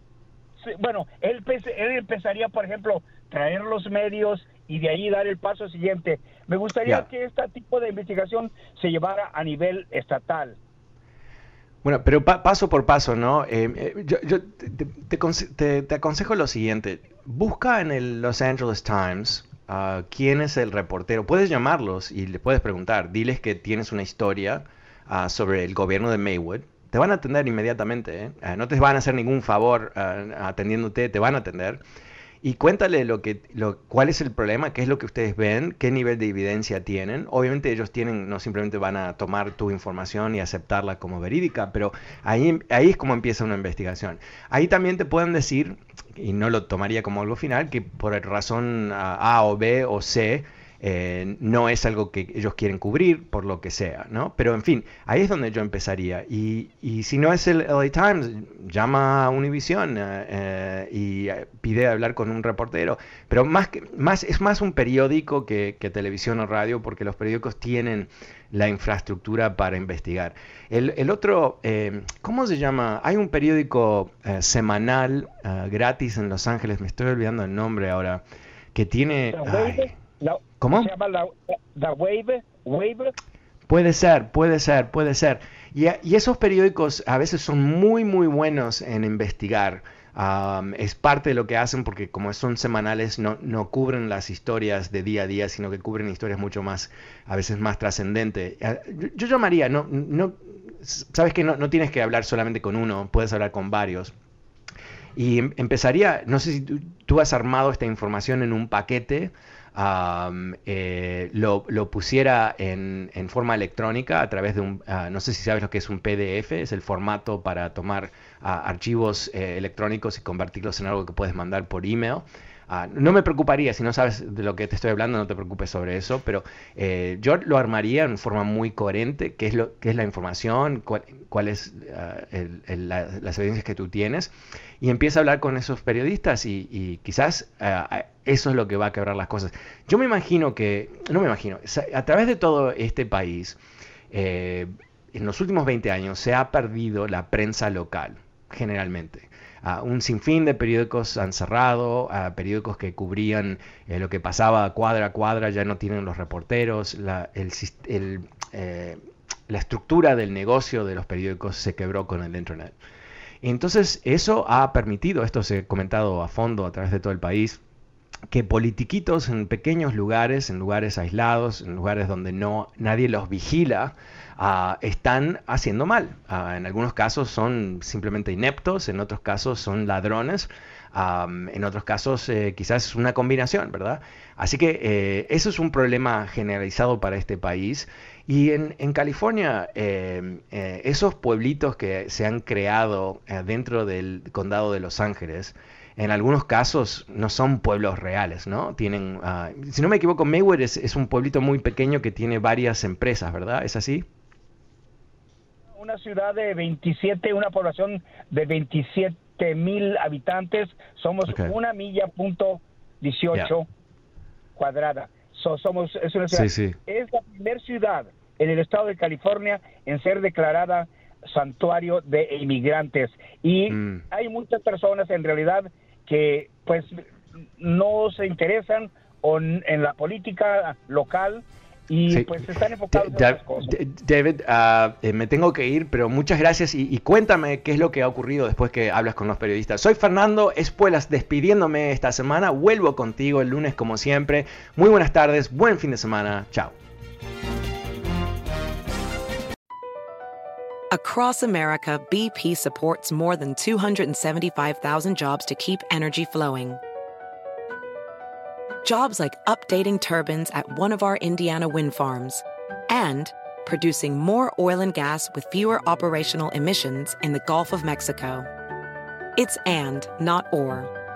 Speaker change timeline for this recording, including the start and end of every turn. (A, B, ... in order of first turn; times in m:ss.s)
0:00.6-0:10.6 A
0:11.8-0:31.8 B
0:32.4-1:18.2 B
1:18.7-1:19.9 B
1:19.3-1:23.1 A
1:20.6-1:20.9 B
1:23.7-1:44.1 B
1:45.2-2:23.6 B
2:24.1-2:42.7 B
2:43.4-2:47.6 B
2:48.3-3:24.1 B
3:25.8-3:33.7 A
3:31.3-3:31.5 B
3:34.6-3:47.0 A
3:36.3-3:36.8 B
3:43.7-3:44.0 B
3:47.6-3:53.8 A
3:52.1-4:06.7 B
4:10.9-4:16.8 C
4:18.8-4:28.5 C
4:29.4-4:30.9 C